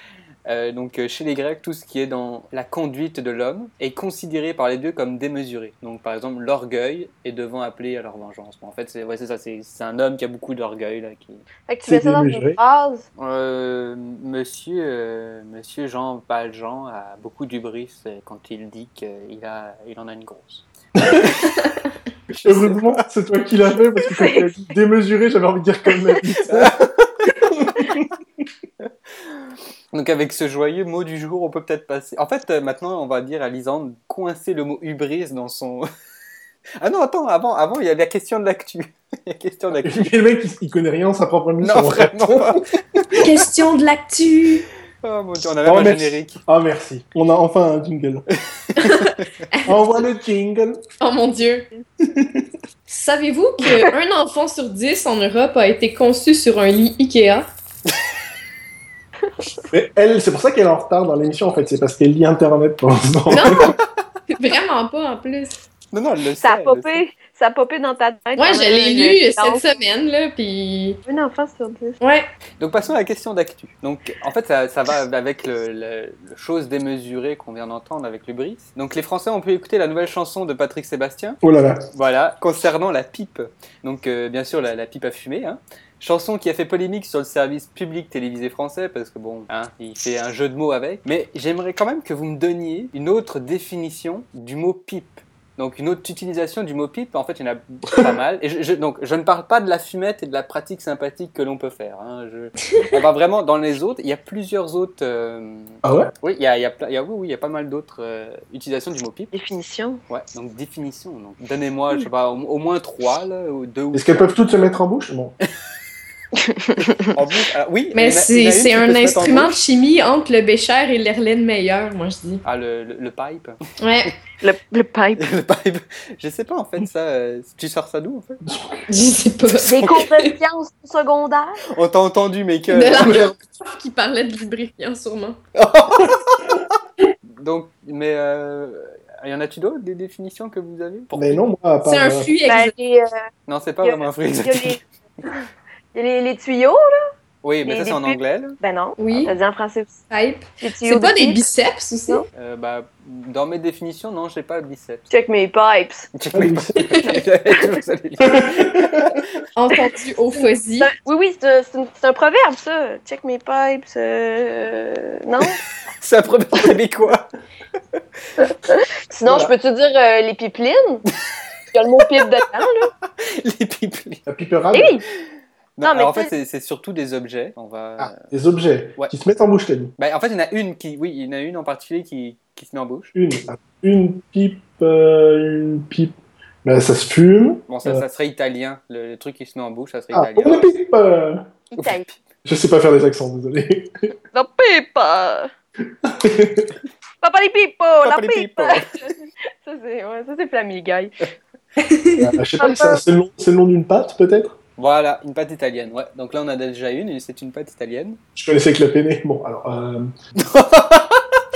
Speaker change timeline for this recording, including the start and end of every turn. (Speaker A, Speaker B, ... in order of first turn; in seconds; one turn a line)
Speaker A: 0.5-11.4
Speaker B: 11.7-13.1
Speaker C: 11.8-12.6
Speaker A: 13.2-20.6
Speaker C: 21.0-21.3
Speaker A: 21.3-21.6
Speaker A: 22.4-23.0
Speaker C: 22.4-26.8
Speaker A: 26.4-27.1
Speaker C: 27.5-28.1
Speaker A: 29.9-35.9
Speaker A: 36.8-40.1
Speaker C: 39.8-42.6
Speaker A: 41.6-43.0
Speaker D: 43.2-44.6
Speaker A: 45.0-46.4
Speaker C: 45.6-48.2
Speaker D: 48.8-49.6
Speaker C: 49.7-50.8
Speaker D: 51.0-51.7
Speaker C: 52.1-52.4
Speaker D: 52.9-57.5
Speaker C: 59.7-63.7
Speaker D: 63.3-63.6
Speaker D: 64.3-65.6
Speaker A: 65.9-67.0
Speaker B: 66.4-69.8
Speaker D: 68.4-71.0
Speaker B: 71.1-72.0
Speaker A: 72.6-81.4
Speaker C: 81.4-81.8
Speaker A: 81.9-109.3
Speaker C: 105.8-106.1
Speaker B: 109.3-110.0
Speaker A: 110.1-114.4
Speaker C: 113.9-115.3
Speaker B: 116.4-117.1
Speaker A: 117.1-119.6
Speaker D: 118.0-122.4
Speaker A: 122.4-123.6
Speaker D: 123.8-124.1
Speaker B: 124.4-125.2
Speaker A: 125.2-128.4
Speaker C: 128.4-128.9
Speaker D: 128.9-129.7
Speaker B: 129.6-131.6
Speaker A: 131.7-133.3
Speaker D: 132.7-135.4
Speaker A: 135.6-136.4
Speaker A: 137.4-141.4
Speaker C: 141.1-142.3
Speaker D: 141.8-142.7
Speaker B: 142.5-143.2
Speaker A: 143.5-144.8
Speaker B: 143.8-145.4
Speaker B: 145.9-147.1
Speaker A: 147.4-148.6
Speaker B: 147.6-149.9
Speaker D: 149.0-149.3
Speaker D: 150.1-152.2
Speaker B: 150.6-151.4
Speaker A: 152.3-155.1
Speaker B: 155.1-156.1
Speaker A: 156.2-158.8
Speaker C: 156.3-156.8
Speaker C: 158.2-159.2
Speaker D: 159.6-160.9
Speaker B: 160.4-165.6
Speaker A: 166.0-167.3
Speaker B: 168.4-171.0
Speaker C: 169.3-169.5
Speaker B: 171.7-172.9
Speaker A: 173.2-174.2
Speaker C: 174.3-175.0
Speaker B: 174.7-175.0
Speaker A: 175.8-178.2
Speaker B: 175.8-176.3
Speaker C: 178.0-179.9
Speaker A: 180.0-183.1
Speaker C: 183.1-186.1
Speaker C: 186.7-188.0
Speaker A: 187.7-190.7
Speaker C: 190.1-191.5
Speaker B: 191.7-192.1
Speaker A: 191.8-192.2
Speaker C: 192.4-194.1
Speaker B: 194.3-195.5
Speaker C: 196.0-196.8
Speaker B: 197.2-199.1
Speaker A: 198.0-198.9
Speaker B: 199.6-201.3
Speaker D: 201.8-202.2
Speaker C: 202.2-204.6
Speaker B: 202.6-203.0
Speaker A: 204.8-208.2
Speaker C: 208.4-210.1
Speaker A: 210.4-211.2